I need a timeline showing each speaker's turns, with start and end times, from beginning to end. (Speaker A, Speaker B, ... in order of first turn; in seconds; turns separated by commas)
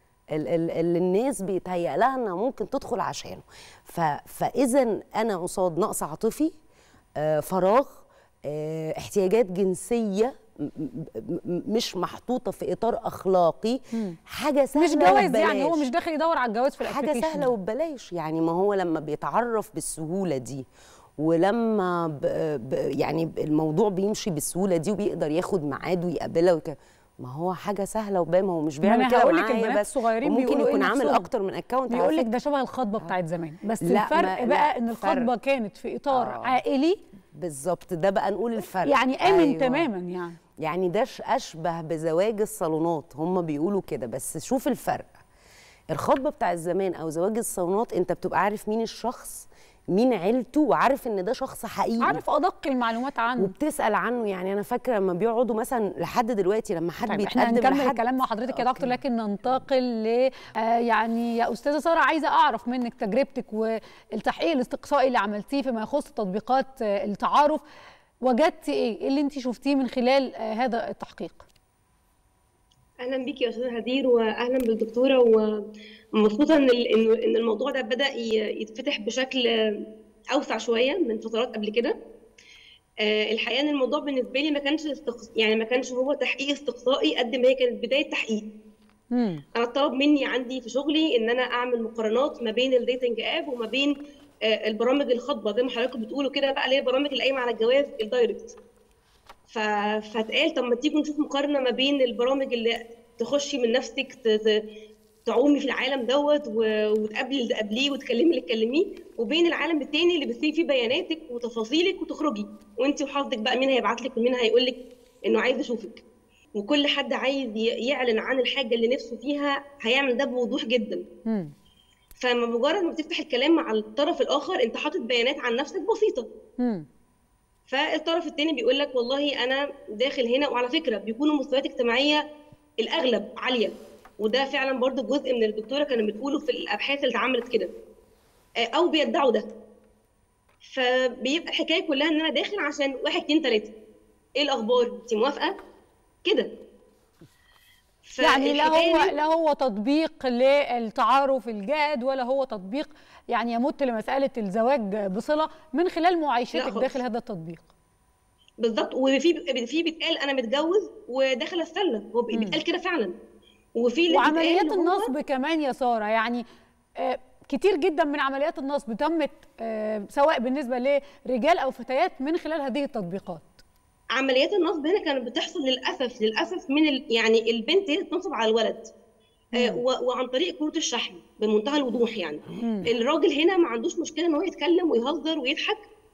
Speaker A: 0.3-6.5, Speaker A: 7.2-15.8, Speaker B: 14.8-17.5, Speaker A: 16.8-20.7, Speaker A: 21.2-32.3, Speaker B: 28.8-31.3, Speaker B: 31.9-37.0, Speaker A: 33.8-35.3, Speaker A: 36.1-36.6, Speaker A: 37.3-39.9, Speaker B: 38.9-40.4, Speaker A: 40.6-45.2, Speaker A: 45.9-52.2, Speaker B: 52.0-53.5, Speaker A: 53.4-58.9, Speaker B: 57.1-67.6, Speaker B: 68.2-71.5, Speaker C: 73.0-79.8, Speaker C: 80.3-82.0, Speaker C: 83.0-88.5, Speaker B: 89.1-89.4, Speaker C: 89.6-93.9, Speaker C: 94.5-98.5, Speaker C: 99.5-104.6, Speaker C: 105.3-116.0, Speaker C: 116.6-121.0, Speaker B: 121.3-121.5, Speaker C: 122.2-126.3, Speaker B: 126.6-126.9, Speaker C: 127.7-132.2, Speaker C: 132.8-137.7, Speaker C: 138.6-139.5, Speaker C: 140.6-143.7, Speaker C: 144.4-145.6, Speaker C: 146.2-146.5, Speaker C: 148.1-149.1, Speaker B: 148.2-157.7, Speaker C: 156.6-157.0, Speaker C: 158.6-163.1, Speaker B: 162.3-162.6, Speaker C: 163.8-165.1, Speaker B: 164.1-166.4, Speaker B: 167.0-173.6, Speaker C: 174.2-178.9, Speaker C: 179.6-185.8, Speaker B: 182.6-182.9